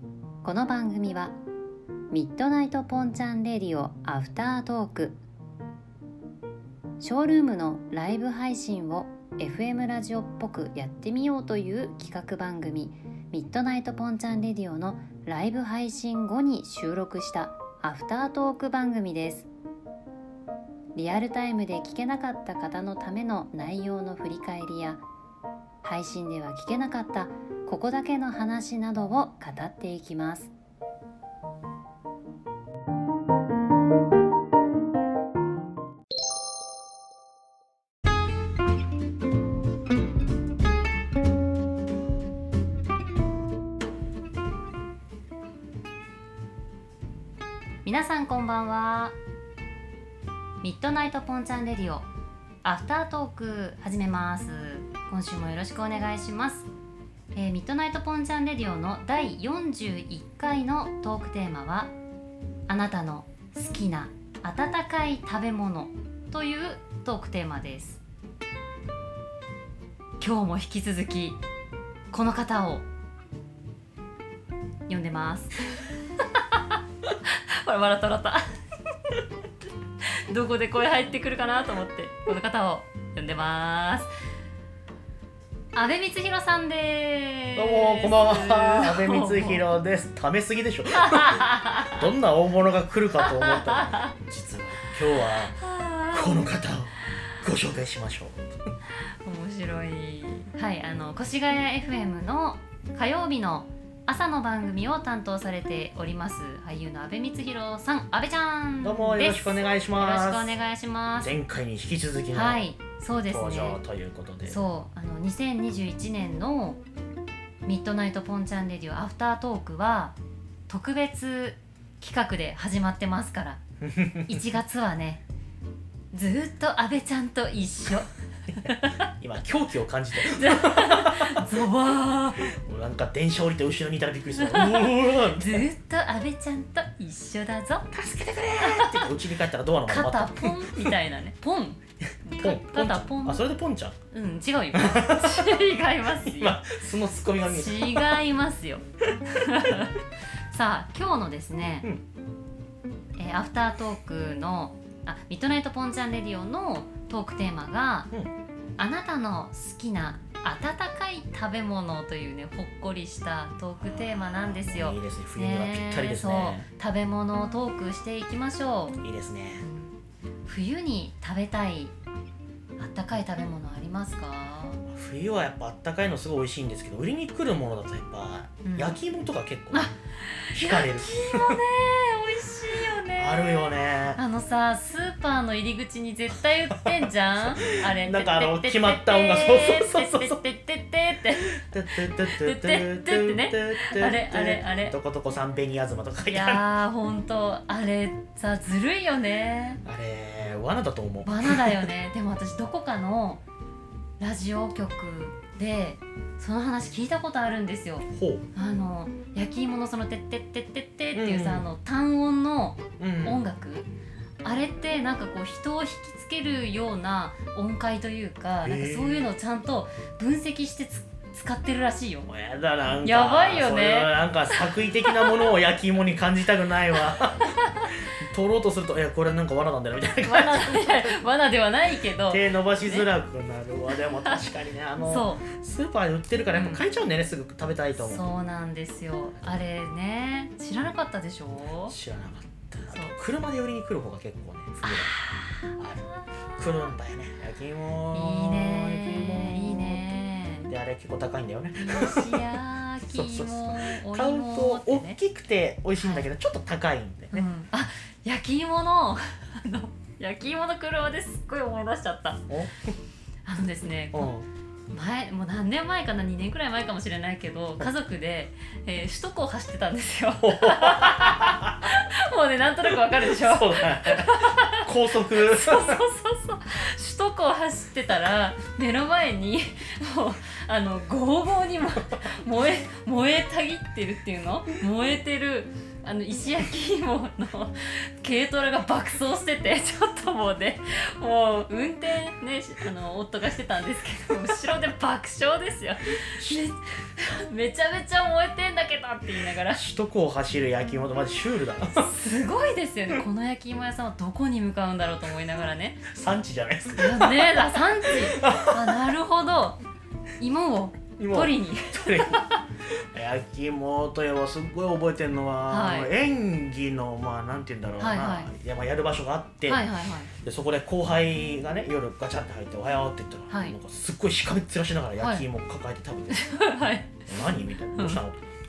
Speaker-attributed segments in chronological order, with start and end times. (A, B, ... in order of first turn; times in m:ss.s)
0:00.4-0:01.4 A
0:02.1-0:05.2 A
0:07.0-0:19.5 A
0:20.9-0:25.0 A
0:25.8-0:30.5 A
0:47.8-0:49.2 A
0:50.6-0:52.1 A
0:52.6-0:56.7 A
0:57.3-1:01.9 A
1:02.7-1:08.0 A
1:10.2-1:11.4 A
1:12.1-1:12.8 A
1:14.9-1:18.4 A
1:20.3-1:24.1 A
1:25.7-1:29.6 A
1:27.5-1:35.6 B
1:30.9-1:32.0 A
1:33.2-1:34.1 A
1:35.1-1:36.5 A
1:36.1-1:38.5 B
1:39.2-1:51.3 A
1:48.8-1:50.5 B
1:51.2-1:52.6 B
1:52.3-1:53.8 A
1:53.3-1:54.6 B
1:54.4-1:56.8 A
1:57.6-2:00.1 A
2:00.7-2:03.6 A
2:03.8-2:04.4 B
2:04.3-2:05.2 A
2:06.1-2:09.1 A
2:09.2-2:11.5 B
2:10.2-2:12.5 A
2:12.5-2:15.7 B
2:14.4-2:17.9 A
2:17.9-2:20.9 B
2:18.6-2:19.1 A
2:19.9-2:23.4 A
2:22.4-2:24.0 B
2:24.1-2:26.6 A
2:24.7-2:25.6 B
2:26.2-2:28.1 B
2:27.4-2:30.0 A
2:29.3-2:29.9 B
2:30.5-2:31.9 A
2:33.2-2:38.1 A
2:38.8-2:49.0 A
2:43.8-2:46.6 B
2:49.0-2:49.6 B
2:49.6-2:49.9 A
2:50.4-2:51.9 A
2:52.8-2:54.8 A
2:54.9-2:59.9 B
2:58.6-2:59.0 A
2:59.7-3:15.0 A
3:00.5-3:01.6 B
3:03.1-3:04.2 B
3:06.8-3:10.4 B
3:11.6-3:16.6 B
3:16.3-3:19.8 A
3:19.8-3:21.9 B
3:21.2-3:23.4 A
3:24.2-3:33.9 A
3:28.1-3:28.4 B
3:31.1-3:31.7 B
3:33.0-3:33.4 B
3:34.4-3:42.3 A
3:38.6-3:39.3 B
3:42.2-3:51.2 B
3:43.0-3:45.4 A
3:47.4-3:47.9 A
3:50.2-3:53.1 A
3:52.2-3:58.2 B
3:55.0-3:55.4 A
3:56.5-3:56.8 A
3:58.0-4:02.0 A
4:01.9-4:05.2 B
4:02.9-4:03.2 A
4:04.8-4:06.9 A
4:05.8-4:06.0 B
4:06.6-4:10.0 B
4:08.1-4:10.7 A
4:10.7-4:12.5 B
4:11.8-4:15.2 A
4:13.0-4:17.4 B
4:16.0-4:16.3 A
4:17.3-4:22.4 A
4:22.5-4:22.8 B
4:23.4-4:24.3 A
4:24.1-4:24.5 B
4:24.9-4:59.8 A
4:30.4-4:31.9 B
4:32.9-4:36.0 B
4:56.4-4:56.6 B
4:59.7-5:02.1 B
5:01.9-5:06.0 A
5:06.0-5:09.0 B
5:07.0-5:09.8 A
5:10.4-5:12.6 A
5:11.2-5:19.8 B
5:15.7-5:16.1 A
5:18.0-5:18.5 A
5:19.6-5:20.3 A
5:20.3-5:26.5 B
5:23.5-5:23.7 A
5:25.2-5:25.4 A
5:26.3-5:27.2 A
5:27.3-5:28.4 B